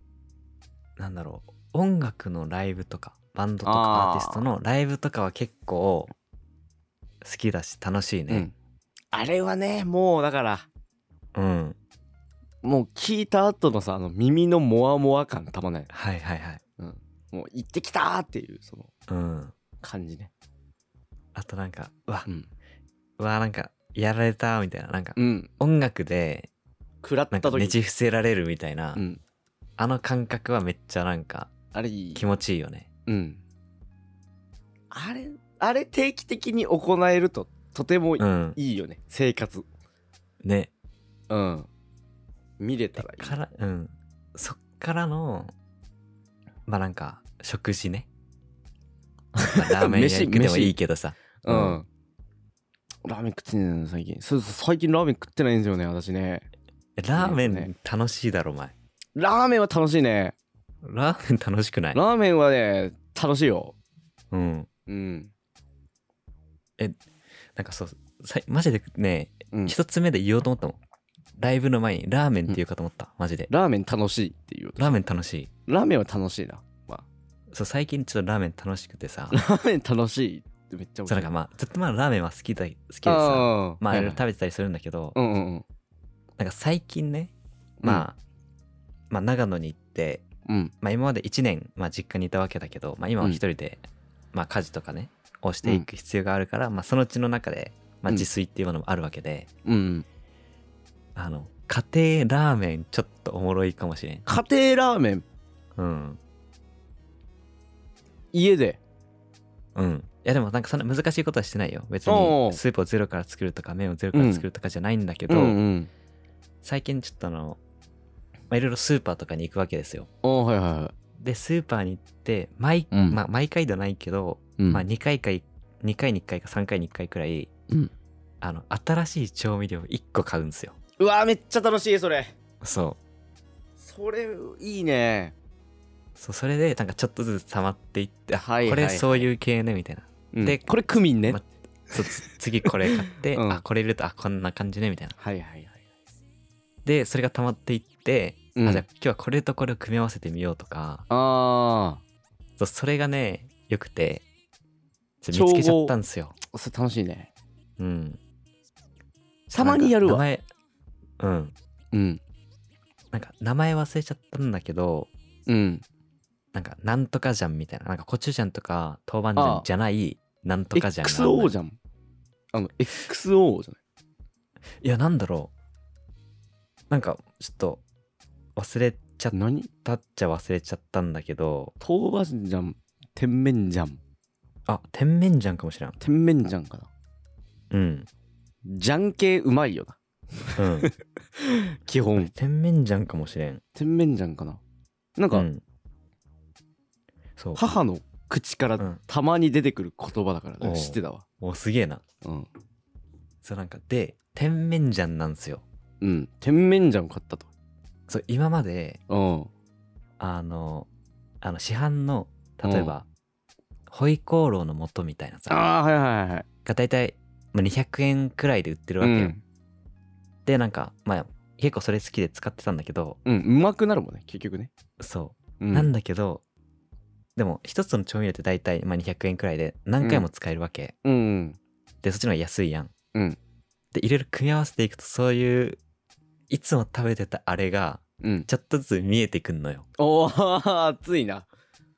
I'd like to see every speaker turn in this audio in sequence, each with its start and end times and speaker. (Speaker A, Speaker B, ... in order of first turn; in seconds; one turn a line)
Speaker A: 1.0-6.1
Speaker B: 3.6-4.4
Speaker A: 7.2-8.5
Speaker B: 8.3-8.5
Speaker B: 9.1-10.7
Speaker A: 11.3-11.8
Speaker B: 12.6-15.9
Speaker A: 15.9-16.6
Speaker B: 16.8-18.9
Speaker A: 19.1-19.5
Speaker B: 19.8-20.3
Speaker A: 21.3-22.3
Speaker A: 23.2-26.5
Speaker B: 25.1-25.5
Speaker B: 27.0-27.8
Speaker A: 27.3-29.0
Speaker B: 28.9-29.2
Speaker A: 29.8-31.5
Speaker B: 31.7-32.2
Speaker A: 32.1-32.9
Speaker B: 33.1-33.4
Speaker B: 34.9-39.6
Speaker A: 38.2-38.6
Speaker A: 40.4-40.7
Speaker B: 41.3-41.7
Speaker B: 42.6-43.4
Speaker A: 43.0-45.5
Speaker A: 46.7-48.1
Speaker B: 49.3-50.8
Speaker A: 49.5-51.8
Speaker B: 51.4-51.9
Speaker B: 53.0-56.5
Speaker A: 57.0-58.7
Speaker B: 57.1-57.7
Speaker B: 59.1-60.3
Speaker A: 60.8-62.0
Speaker B: 61.9-63.7
Speaker A: 64.3-64.7
Speaker B: 64.9-65.3
Speaker A: 67.5-70.8
Speaker A: 71.4-73.5
Speaker B: 73.5-75.0
Speaker A: 74.8-75.5
Speaker B: 75.7-77.0
Speaker A: 77.5-79.4
Speaker B: 79.3-81.3
Speaker A: 81.1-85.2
Speaker B: 83.0-84.2
Speaker B: 85.1-85.6
Speaker A: 86.4-88.2
Speaker A: 89.1-90.3
Speaker B: 90.5-90.7
Speaker A: 90.8-99.5
Speaker B: 99.6-100.0
Speaker A: 101.2-104.2
Speaker B: 104.2-105.2
Speaker A: 105.8-106.2
Speaker B: 108.3-108.8
Speaker A: 109.7-115.6
Speaker B: 112.0-112.6
Speaker B: 114.1-114.5
Speaker B: 115.3-115.9
Speaker A: 116.6-117.6
Speaker A: 118.5-120.1
Speaker B: 120.2-120.9
Speaker A: 121.2-127.5
Speaker B: 122.9-123.2
Speaker B: 124.6-124.8
Speaker A: 128.4-130.8
Speaker B: 131.0-132.3
Speaker A: 132.6-133.0
Speaker B: 133.8-135.3
Speaker A: 136.2-140.7
Speaker B: 138.4-139.3
Speaker B: 140.3-141.4
Speaker A: 141.3-145.1
Speaker B: 141.9-143.6
Speaker B: 145.2-145.8
Speaker A: 146.8-151.1
Speaker B: 148.6-148.8
Speaker B: 151.1-152.0
Speaker A: 152.6-154.2
Speaker A: 155.2-156.3
Speaker B: 155.3-155.9
Speaker B: 156.5-157.3
Speaker A: 157.8-158.2
Speaker B: 159.5-160.2
Speaker A: 159.6-160.4
Speaker A: 161.2-161.5
Speaker B: 161.9-162.2
Speaker A: 163.1-165.1
Speaker B: 165.5-165.8
Speaker A: 166.5-171.5
Speaker B: 169.3-169.7
Speaker B: 170.7-171.8
Speaker B: 172.5-173.8
Speaker A: 174.8-175.5
Speaker A: 176.9-177.8
Speaker A: 178.6-181.7
Speaker B: 179.3-179.7
Speaker B: 181.8-184.0
Speaker A: 184.7-186.0
Speaker B: 186.0-186.9
Speaker A: 187.7-188.1
Speaker B: 188.6-192.3
Speaker A: 190.6-190.9
Speaker A: 192.2-193.6
Speaker B: 193.8-194.6
Speaker B: 195.2-195.5
Speaker A: 195.3-195.6
Speaker A: 197.4-197.6
Speaker B: 197.5-201.2
Speaker A: 200.6-202.0
Speaker B: 202.2-202.5
Speaker A: 203.4-205.6
Speaker B: 206.0-207.5
Speaker A: 208.1-209.0
Speaker B: 209.1-209.5
Speaker A: 210.2-210.9
Speaker A: 211.4-213.1
Speaker B: 212.6-212.9
Speaker A: 213.9-215.7
Speaker B: 215.5-216.4
Speaker A: 216.6-219.3
Speaker B: 219.0-219.4
Speaker A: 220.4-223.2
Speaker B: 223.2-224.7
Speaker A: 225.0-226.4
Speaker B: 225.6-225.9
Speaker A: 227.3-230.9
Speaker B: 230.0-230.3
Speaker B: 231.0-231.6
Speaker A: 232.0-232.9
Speaker A: 233.9-235.8
Speaker A: 236.5-239.8
Speaker B: 238.2-238.5
Speaker B: 240.0-241.5